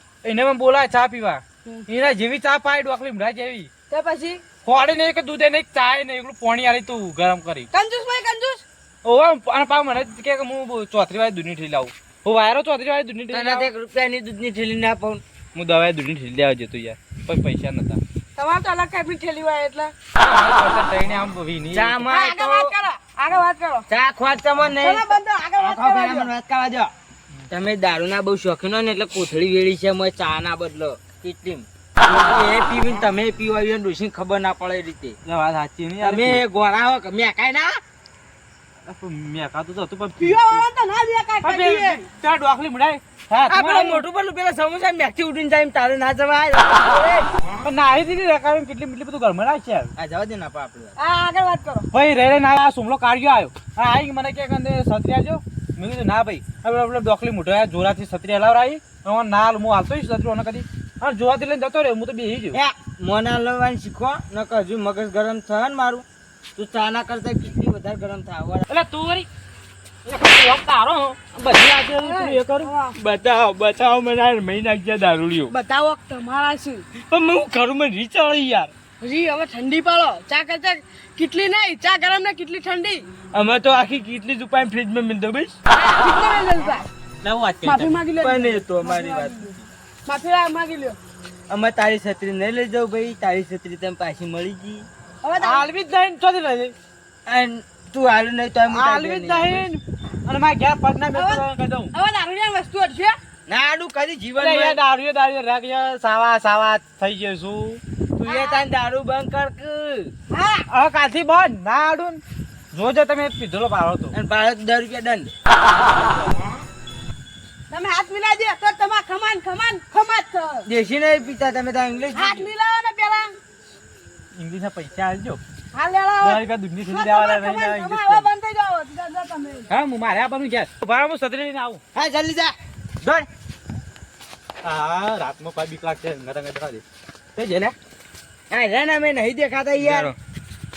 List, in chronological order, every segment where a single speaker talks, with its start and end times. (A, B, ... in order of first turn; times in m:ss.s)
0:00.2-0:03.7 A
0:03.9-0:04.4 B
0:04.6-0:07.7 A
0:07.7-0:08.6 B
0:09.0-0:13.7 A
0:13.3-0:15.2 C
0:15.5-0:18.0 A
0:18.4-0:19.9 B
0:20.2-0:22.0 A
0:21.7-0:22.8 C
0:22.1-0:23.9 B
0:23.9-0:26.9 C
0:24.7-0:26.3 B
0:27.5-0:35.2 C
0:35.2-0:36.4 A
0:36.0-0:37.8 C
0:38.8-0:40.7 A
0:40.2-0:42.0 B
0:41.4-0:44.0 A
0:43.5-0:47.3 C
0:47.6-0:49.9 A
0:50.0-0:51.0 C
0:51.0-0:51.9 B
0:51.9-1:02.6 A
1:02.5-1:06.0 C
1:06.6-1:08.7 C
1:08.7-1:09.3 A
1:10.0-1:12.7 A
1:12.0-1:12.9 B
1:12.9-1:15.5 C
1:15.5-1:16.9 B
1:17.0-1:18.7 C
1:19.0-1:23.1 B
1:23.3-1:25.6 C
1:25.7-1:26.9 B
1:27.2-1:28.0 A
1:27.6-1:31.0 B
1:28.2-1:29.6 C
1:31.5-1:34.9 C
1:35.2-1:35.7 B
1:35.4-1:36.8 A
1:37.3-1:39.7 C
1:38.7-1:41.9 A
1:41.1-1:41.4 B
1:41.9-1:43.2 B
1:43.5-1:44.8 C
1:44.4-1:47.8 A
1:48.2-1:50.1 C
1:48.3-1:48.6 B
1:50.3-1:50.6 B
1:50.7-1:52.2 A
1:52.7-1:54.1 A
1:54.1-1:55.3 C
1:55.9-1:56.4 A
1:57.7-2:00.7 B
2:00.7-2:02.5 C
2:02.1-2:03.4 B
2:04.4-2:05.4 A
2:05.7-2:09.7 B
2:06.2-2:08.3 A
2:09.7-2:11.8 A
2:11.9-2:12.5 C
2:13.0-2:13.3 A
2:14.6-2:16.8 A
2:17.4-2:17.8 A
2:18.5-2:20.1 C
2:19.8-2:20.1 A